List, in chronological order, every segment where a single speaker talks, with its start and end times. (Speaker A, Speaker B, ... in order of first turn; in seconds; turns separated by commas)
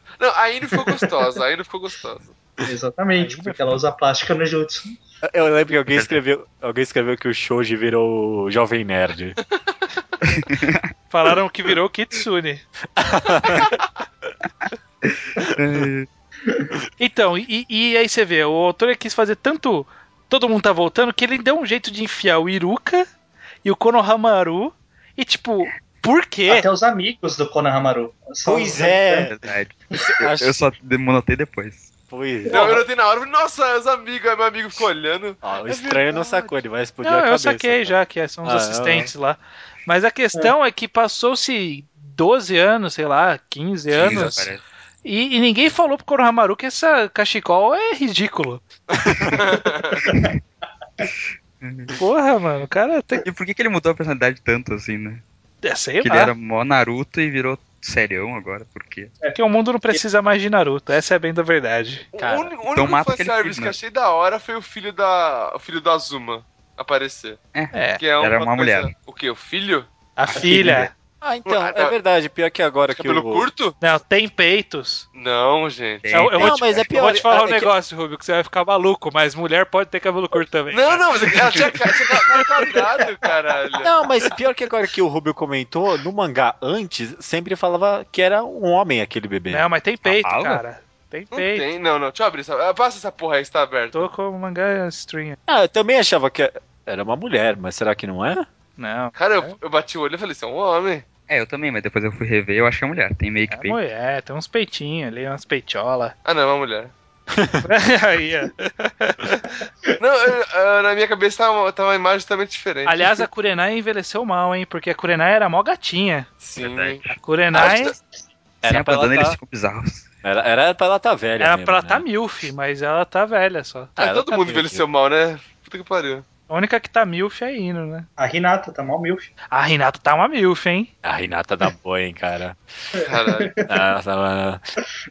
Speaker A: 0.2-2.4, Speaker B: 2.6-5.0, Speaker C: 3.1-3.6, Speaker D: 5.2-9.4, Speaker C: 11.1-12.6, Speaker D: 13.0-13.7, Speaker E: 14.6-16.1, Speaker C: 17.0-23.1, Speaker C: 23.6-26.6, Speaker B: 26.5-29.3, Speaker D: 28.4-29.4, Speaker E: 29.3-31.9, Speaker D: 30.0-30.7, Speaker D: 32.1-32.8, Speaker B: 32.5-32.8, Speaker A: 32.5-35.4, Speaker D: 35.4-39.1, Speaker C: 35.7-36.4, Speaker C: 37.0-44.5, Speaker A: 43.9-44.4, Speaker E: 44.0-44.6, Speaker C: 45.0-48.6, Speaker A: 49.0-50.0, Speaker E: 51.6-51.9, Speaker C: 52.0-53.2, Speaker E: 53.2-55.2, Speaker C: 55.6-56.3, Speaker E: 56.0-59.1, Speaker C: 59.3-62.1, Speaker A: 62.1-69.9, Speaker D: 62.2-62.5, Speaker E: 62.7-63.8, Speaker E: 67.5-68.9, Speaker C: 67.7-68.0, Speaker C: 70.2-70.9, Speaker D: 70.3-73.5, Speaker B: 70.4-70.8, Speaker A: 71.5-71.9, Speaker A: 72.9-73.8, Speaker C: 73.8-75.0, Speaker A: 75.1-76.1, Speaker E: 76.0-76.8, Speaker C: 76.1-82.8, Speaker D: 76.2-77.7, Speaker A: 80.7-83.9, Speaker D: 83.8-89.7, Speaker C: 89.5-91.6, Speaker E: 90.0-90.6, Speaker A: 91.3-94.1, Speaker C: 93.9-95.3, Speaker D: 95.5-98.5, Speaker C: 98.8-99.5, Speaker A: 99.1-101.0, Speaker E: 101.3-103.8, Speaker C: 103.5-106.1, Speaker A: 106.2-106.9, Speaker D: 107.4-107.6, Speaker C: 107.6-109.5, Speaker A: 110.0-113.2, Speaker C: 112.8-116.3, Speaker A: 116.4-117.1, Speaker E: 116.6-117.2, Speaker C: 117.1-117.9, Speaker D: 118.6-119.4, Speaker E: 118.7-120.0, Speaker D: 120.2-122.1, Speaker C: 121.4-123.9, Speaker A: 124.0-126.2, Speaker D: 124.0-124.8, Speaker C: 126.5-128.1, Speaker B: 128.2-129.3, Speaker C: 129.5-130.9, Speaker D: 131.0-132.6, Speaker B: 133.0-133.6, Speaker A: 133.1-133.5, Speaker D: 133.7-134.6